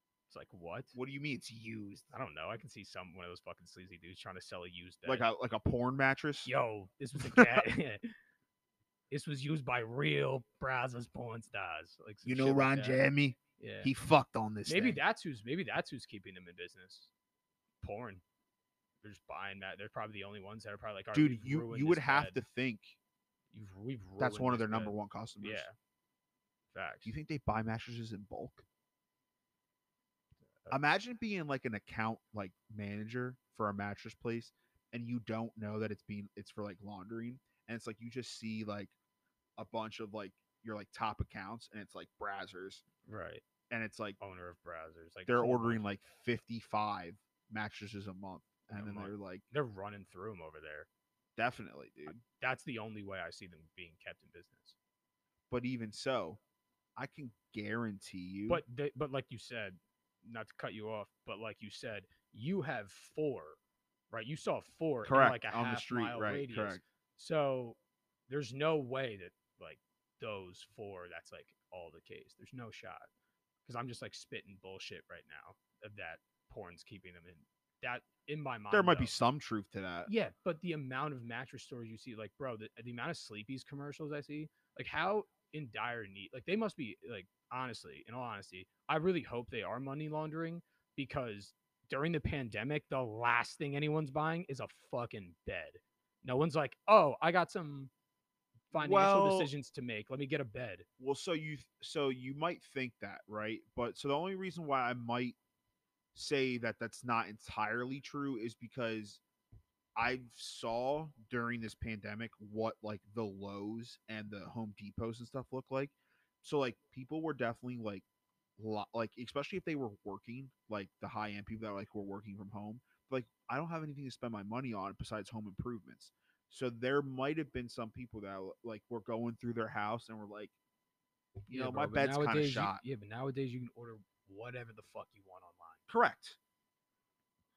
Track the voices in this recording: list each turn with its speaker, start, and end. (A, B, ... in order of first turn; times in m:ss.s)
0:00.3-0:00.9 A
0:00.9-0:02.1 B
0:02.1-0:05.3 A
0:05.0-0:06.5 B
0:06.4-0:08.1 A
0:07.2-0:07.6 B
0:09.1-0:13.0 A
0:12.2-0:15.0 B
0:13.6-0:13.9 A
0:14.6-0:17.1 A
0:17.8-0:18.2 A
0:19.0-0:22.4 A
0:21.1-0:23.0 B
0:23.5-0:25.7 A
0:24.2-0:25.7 B
0:26.7-0:27.1 A
0:27.0-0:28.6 B
0:30.7-0:38.9 B
0:39.6-0:42.8 B
0:43.0-0:43.4 A
0:43.7-0:44.2 B
0:44.2-0:45.8 A
0:45.3-0:49.4 B
0:48.7-0:50.9 A
0:51.4-0:52.2 B
0:52.2-0:54.8 A
0:55.5-0:56.4 B
0:57.0-0:58.6 B
0:58.5-1:03.6 A
1:04.1-1:13.1 A
1:05.0-1:06.8 B
1:13.6-1:19.2 A
1:18.7-1:20.1 B
1:20.0-1:37.9 A
1:38.7-1:40.8 A
1:38.7-1:39.5 B
1:41.0-1:45.4 B
1:46.1-1:49.2 B
1:50.0-1:58.0 B
1:58.6-2:10.5 B
2:11.5-2:12.8 B
2:11.5-2:15.8 A
2:15.9-2:16.4 B